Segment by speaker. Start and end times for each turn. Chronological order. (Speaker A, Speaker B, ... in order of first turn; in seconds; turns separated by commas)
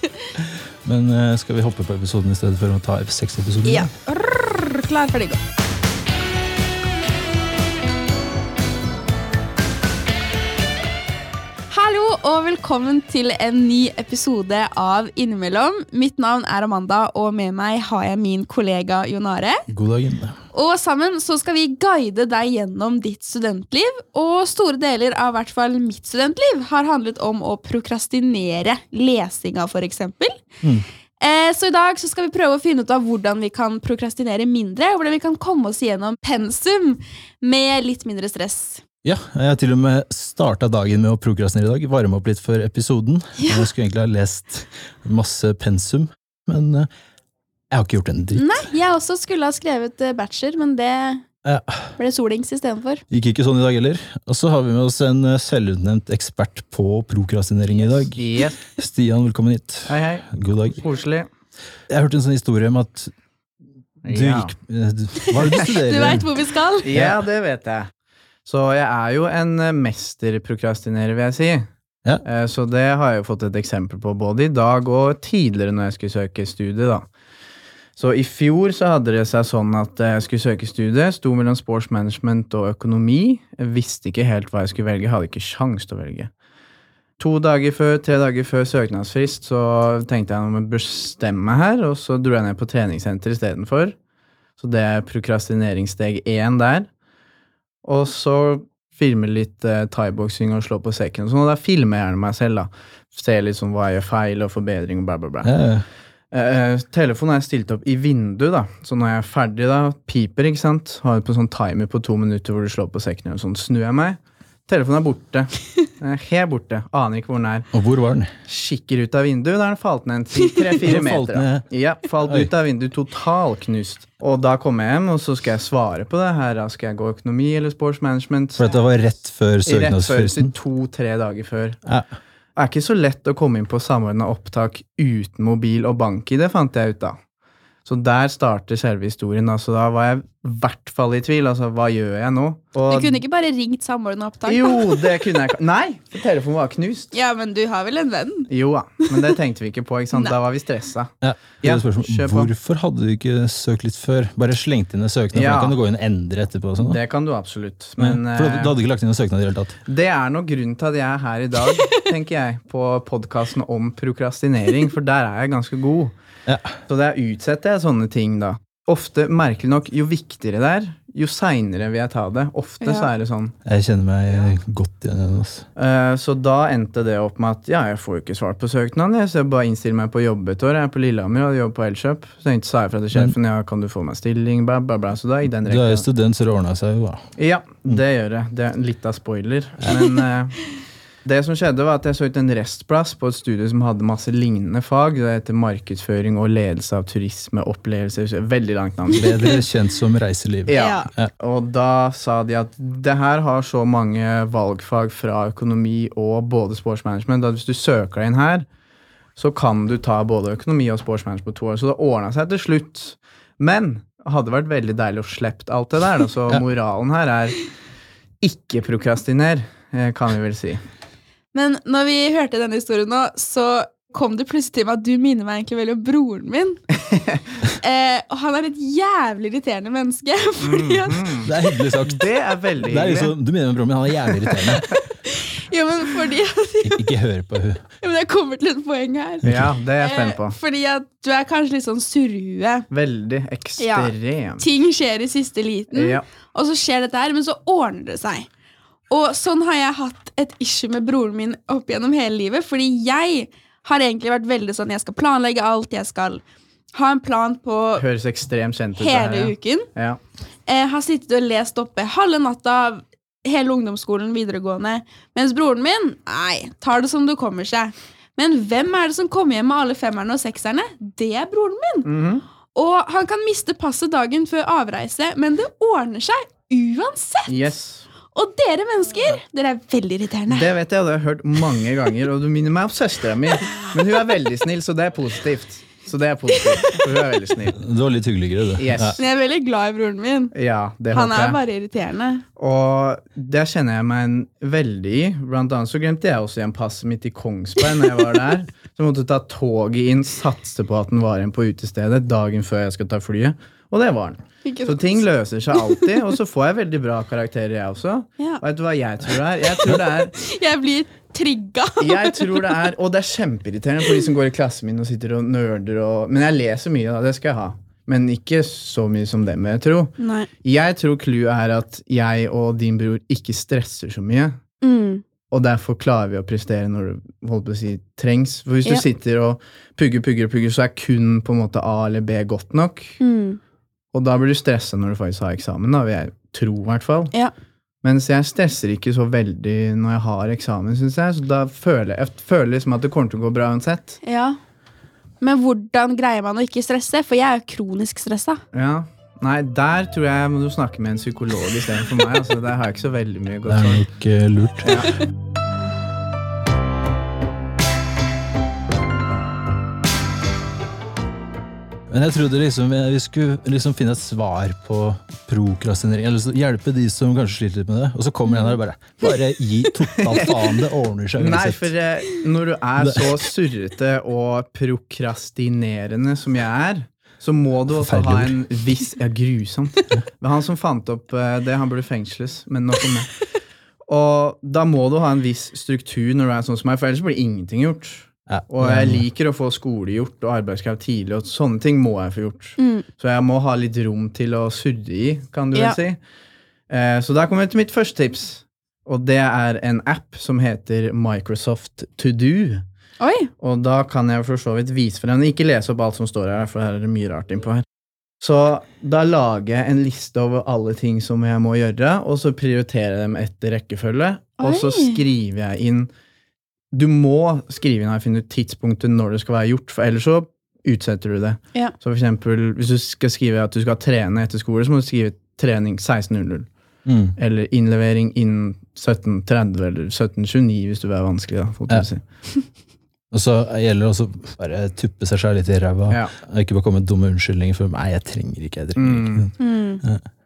Speaker A: 0.4-3.9, Speaker B: 3.6-5.4, Speaker B: 11.7-19.6, Speaker A: 19.7-20.4, Speaker B: 20.5-30.4, Speaker B: 31.2-38.8, Speaker A: 39.0-46.9, Speaker B: 43.4-43.7, Speaker A: 47.7-48.7, Speaker B: 48.4-51.2, Speaker A: 51.4-51.9, Speaker B: 52.0-53.0, Speaker A: 53.1-60.8, Speaker C: 57.9-58.6, Speaker C: 59.9-61.3, Speaker A: 61.9-63.1, Speaker C: 64.0-64.5, Speaker A: 64.1-67.2, Speaker B: 65.2-66.9, Speaker C: 66.8-67.9, Speaker C: 68.4-71.7, Speaker C: 72.2-77.1, Speaker C: 78.0-86.3, Speaker C: 87.2-94.0, Speaker C: 94.6-96.9, Speaker C: 97.8-105.5, Speaker A: 105.4-105.8, Speaker C: 106.3-117.7, Speaker A: 117.7-118.3, Speaker C: 118.5-128.7, Speaker A: 120.8-121.7, Speaker A: 122.2-122.5, Speaker A: 128.6-130.5, Speaker C: 129.6-131.8, Speaker C: 132.6-137.2, Speaker C: 137.8-143.2, Speaker B: 142.9-145.0, Speaker C: 144.4-147.1, Speaker B: 147.1-148.5, Speaker C: 148.5-152.5, Speaker A: 151.2-157.0, Speaker C: 155.3-155.8, Speaker C: 156.8-158.8, Speaker A: 158.0-159.7, Speaker C: 159.9-166.2, Speaker A: 166.5-166.8, Speaker C: 166.9-173.5, Speaker B: 172.8-173.1, Speaker A: 173.6-175.7, Speaker C: 175.8-186.1, Speaker A: 185.6-187.2, Speaker C: 187.4-199.3, Speaker A: 199.1-201.3, Speaker B: 199.2-199.6, Speaker C: 200.7-208.7, Speaker B: 200.7-201.1, Speaker C: 209.4-217.6, Speaker C: 218.4-220.8, Speaker B: 221.5-226.8, Speaker B: 227.8-231.5, Speaker C: 230.6-231.5, Speaker A: 231.4-232.2, Speaker C: 232.0-233.3, Speaker A: 232.8-234.9, Speaker C: 234.6-235.0, Speaker B: 235.3-237.1, Speaker A: 236.8-237.8, Speaker B: 238.0-242.9, Speaker A: 239.4-239.7, Speaker C: 239.4-240.5, Speaker C: 242.9-244.6, Speaker B: 243.8-248.5, Speaker C: 245.9-246.2, Speaker B: 249.1-256.4, Speaker B: 256.9-258.0, Speaker C: 258.0-260.2, Speaker B: 259.0-259.9, Speaker B: 260.6-272.1, Speaker C: 272.0-272.4, Speaker B: 272.7-277.7, Speaker C: 277.5-278.1, Speaker B: 278.3-280.7, Speaker C: 280.5-287.8, Speaker A: 287.8-289.2, Speaker C: 288.8-289.2, Speaker B: 289.2-290.5, Speaker C: 290.5-291.6, Speaker B: 291.1-292.4, Speaker C: 292.6-310.3, Speaker B: 304.6-306.0, Speaker B: 310.3-312.7, Speaker C: 312.0-324.6, Speaker B: 320.2-320.5, Speaker B: 324.8-325.2, Speaker C: 325.5-333.2, Speaker B: 333.2-333.6, Speaker C: 334.1-337.3, Speaker C: 338.0-344.2, Speaker B: 344.2-344.6, Speaker B: 345.4-348.6, Speaker C: 348.7-354.0, Speaker A: 353.7-355.1, Speaker C: 354.8-355.1, Speaker A: 362.1-371.9, Speaker B: 368.4-368.8, Speaker C: 370.2-370.5, Speaker C: 371.4-383.3, Speaker A: 373.0-373.3, Speaker A: 377.9-378.5, Speaker C: 384.1-396.2, Speaker A: 388.5-389.2, Speaker B: 392.8-393.0, Speaker C: 396.9-402.8, Speaker B: 403.2-403.5, Speaker C: 403.6-407.8, Speaker C: 408.4-416.1, Speaker B: 414.6-415.2, Speaker C: 416.9-426.7, Speaker A: 427.1-427.3, Speaker C: 427.4-432.2, Speaker A: 433.3-439.5, Speaker C: 436.1-436.3, Speaker C: 439.0-439.5, Speaker B: 439.6-440.0